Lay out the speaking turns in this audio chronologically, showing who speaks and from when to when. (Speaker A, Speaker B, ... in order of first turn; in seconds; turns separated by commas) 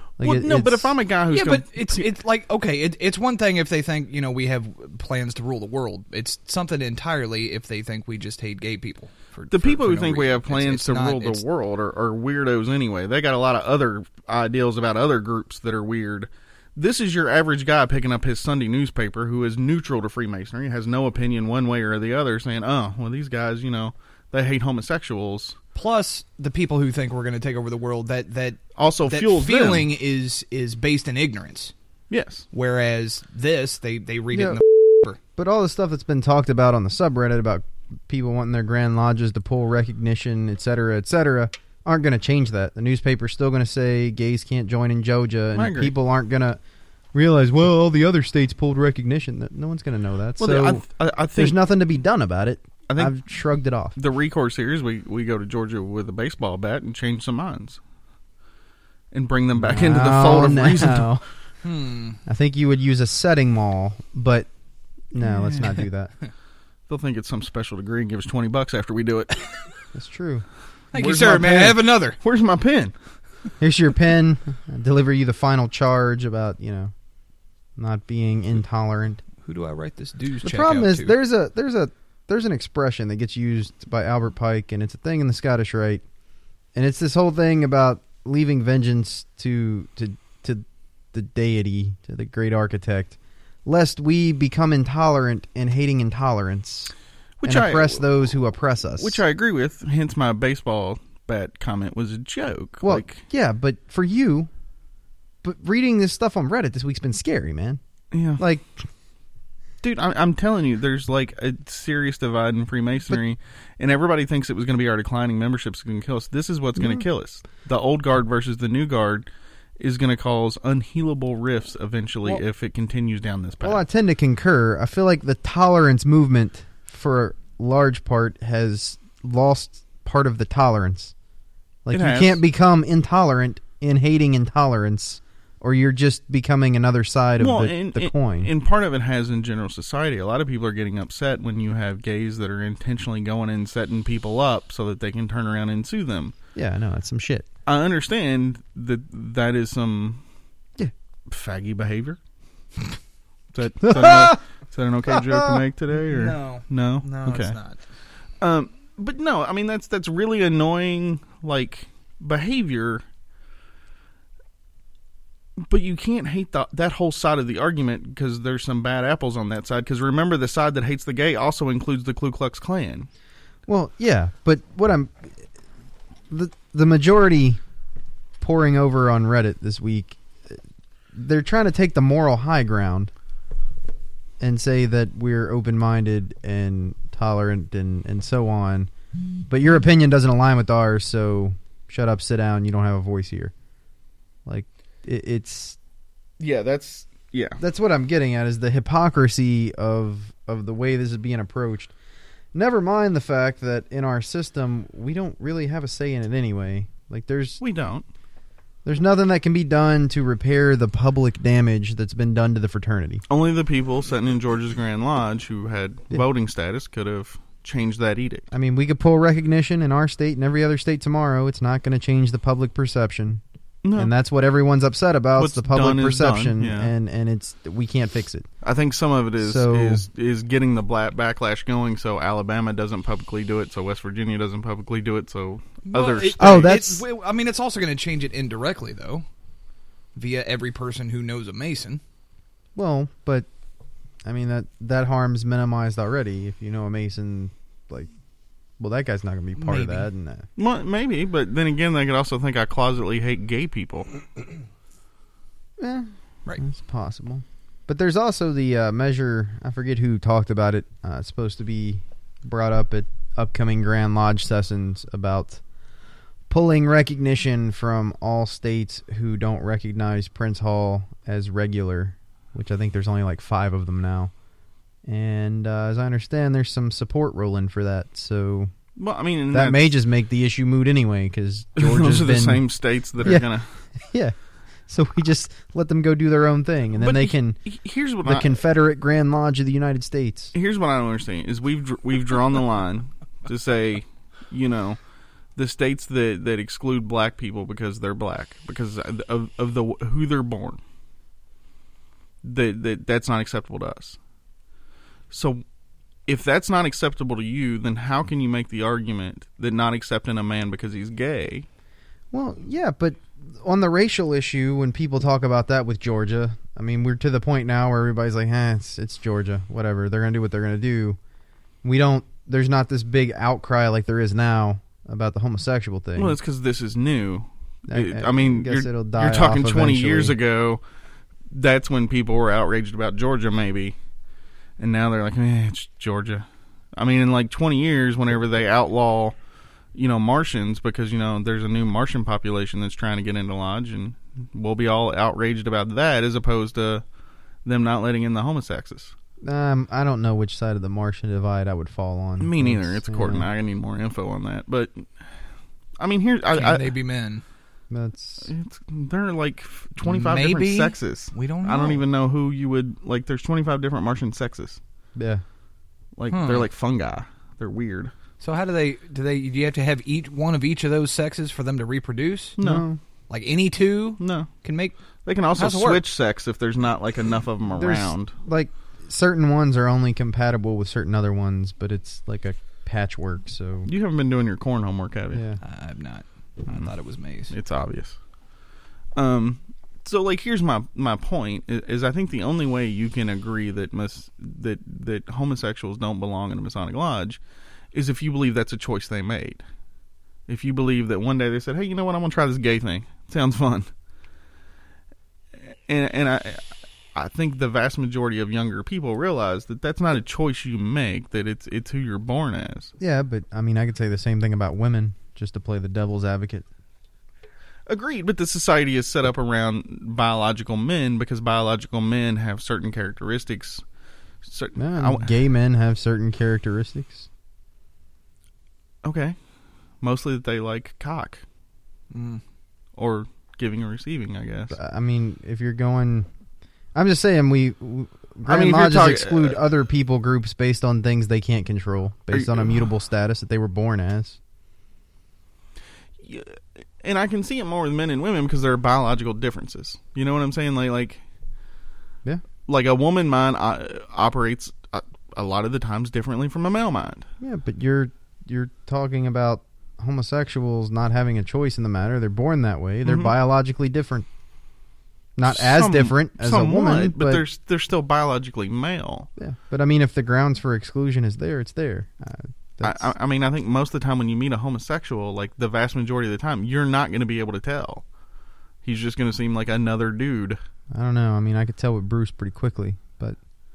Speaker A: 0.2-0.9, Speaker B: 0.2-2.1, Speaker C: 1.3-11.4, Speaker B: 9.5-25.6, Speaker C: 25.8-31.7, Speaker B: 28.8-29.9, Speaker B: 32.1-32.5, Speaker C: 32.5-35.2, Speaker A: 34.3-34.6, Speaker A: 35.4-46.6, Speaker B: 45.5-45.9, Speaker A: 47.1-54.0, Speaker B: 50.4-51.6, Speaker B: 52.9-53.2, Speaker B: 54.0-57.8, Speaker B: 59.1-61.1, Speaker A: 59.5-61.2, Speaker C: 61.6-62.2, Speaker A: 62.2-64.5, Speaker A: 65.1-66.1, Speaker B: 66.9-69.5, Speaker A: 70.0-70.5, Speaker C: 70.9-72.2, Speaker B: 71.0-73.0, Speaker A: 73.6-76.9, Speaker A: 77.8-79.2, Speaker C: 79.4-81.2, Speaker A: 80.4-86.0, Speaker A: 86.8-96.9, Speaker B: 97.4-98.1, Speaker A: 97.4-99.2, Speaker B: 99.0-103.2, Speaker A: 102.8-104.5, Speaker A: 105.4-107.8, Speaker B: 108.1-108.4, Speaker A: 108.4-108.7, Speaker B: 109.8-123.8, Speaker A: 116.8-117.1, Speaker A: 123.6-131.1, Speaker A: 131.9-138.5, Speaker B: 131.9-132.4, Speaker B: 137.4-146.3, Speaker A: 146.6-147.5, Speaker B: 147.7-150.2, Speaker B: 151.3-152.2, Speaker B: 153.5-157.6, Speaker A: 153.8-154.4, Speaker A: 155.1-155.6, Speaker C: 156.1-157.8, Speaker B: 158.4-163.1, Speaker B: 165.6-173.1, Speaker A: 173.7-175.5, Speaker A: 176.3-177.6, Speaker A: 178.4-180.6, Speaker A: 181.1-183.1, Speaker A: 184.4-188.9, Speaker A: 189.5-193.5, Speaker A: 194.5-195.8, Speaker B: 196.4-197.6, Speaker A: 197.6-201.9, Speaker A: 202.5-207.6, Speaker B: 207.6-208.1, Speaker A: 208.8-213.2, Speaker B: 213.3-218.5, Speaker A: 218.5-223.4, Speaker B: 223.8-224.1, Speaker A: 224.0-228.5, Speaker B: 225.4-226.9, Speaker B: 228.6-236.7, Speaker A: 229.4-230.1, Speaker C: 235.9-239.2, Speaker A: 236.4-237.0, Speaker C: 240.2-242.0, Speaker A: 242.8-243.5, Speaker A: 244.2-248.1, Speaker A: 248.8-250.5, Speaker C: 249.6-250.1, Speaker B: 250.6-254.1, Speaker A: 255.8-265.6, Speaker A: 266.5-274.3, Speaker A: 275.1-278.7, Speaker B: 279.0-279.9, Speaker A: 279.5-284.4, Speaker B: 281.8-283.8, Speaker A: 284.9-287.7, Speaker B: 287.0-288.6, Speaker A: 288.2-290.5, Speaker B: 290.5-295.0, Speaker B: 295.6-300.8, Speaker B: 302.4-304.2, Speaker B: 305.3-305.6, Speaker B: 306.3-311.7, Speaker A: 312.3-321.2, Speaker A: 321.8-326.4, Speaker B: 326.2-330.8, Speaker A: 327.9-330.4, Speaker B: 331.5-333.9, Speaker B: 334.8-339.4, Speaker B: 339.9-347.0, Speaker B: 347.6-349.1, Speaker A: 349.4-353.5, Speaker B: 352.4-355.4, Speaker B: 356.0-356.9, Speaker C: 356.5-357.4, Speaker A: 357.9-358.5, Speaker B: 358.4-364.8, Speaker C: 360.0-362.1, Speaker A: 365.2-365.4, Speaker B: 366.2-368.1, Speaker C: 366.3-366.7, Speaker C: 368.4-372.6, Speaker B: 372.6-372.9, Speaker A: 372.6-373.0, Speaker C: 373.3-375.0, Speaker B: 374.2-374.5, Speaker B: 375.2-378.3, Speaker C: 375.5-376.0, Speaker A: 377.8-383.9, Speaker B: 383.9-385.4, Speaker A: 385.3-385.6, Speaker C: 385.6-387.6, Speaker B: 387.5-388.2, Speaker B: 389.1-397.4, Speaker B: 397.9-399.6, Speaker B: 400.5-403.9, Speaker B: 405.9-406.6, Speaker B: 407.1-412.9, Speaker A: 413.0-416.7, Speaker B: 417.9-423.8, Speaker B: 424.4-425.3, Speaker A: 424.8-427.3, Speaker B: 429.0-429.4, Speaker B: 430.0-431.4, Speaker C: 432.1-432.4, Speaker B: 433.0-434.7, Speaker A: 434.7-436.3, Speaker A: 436.9-444.4, Speaker B: 438.5-439.6, Speaker B: 442.3-442.8, Speaker B: 446.2-451.2, Speaker B: 452.6-457.2, Speaker A: 457.4-464.3, Speaker B: 463.1-463.4, Speaker A: 465.4-467.4, Speaker B: 465.4-469.3, Speaker A: 469.4-473.1, Speaker B: 472.8-478.1, Speaker B: 478.8-480.6, Speaker A: 480.9-483.4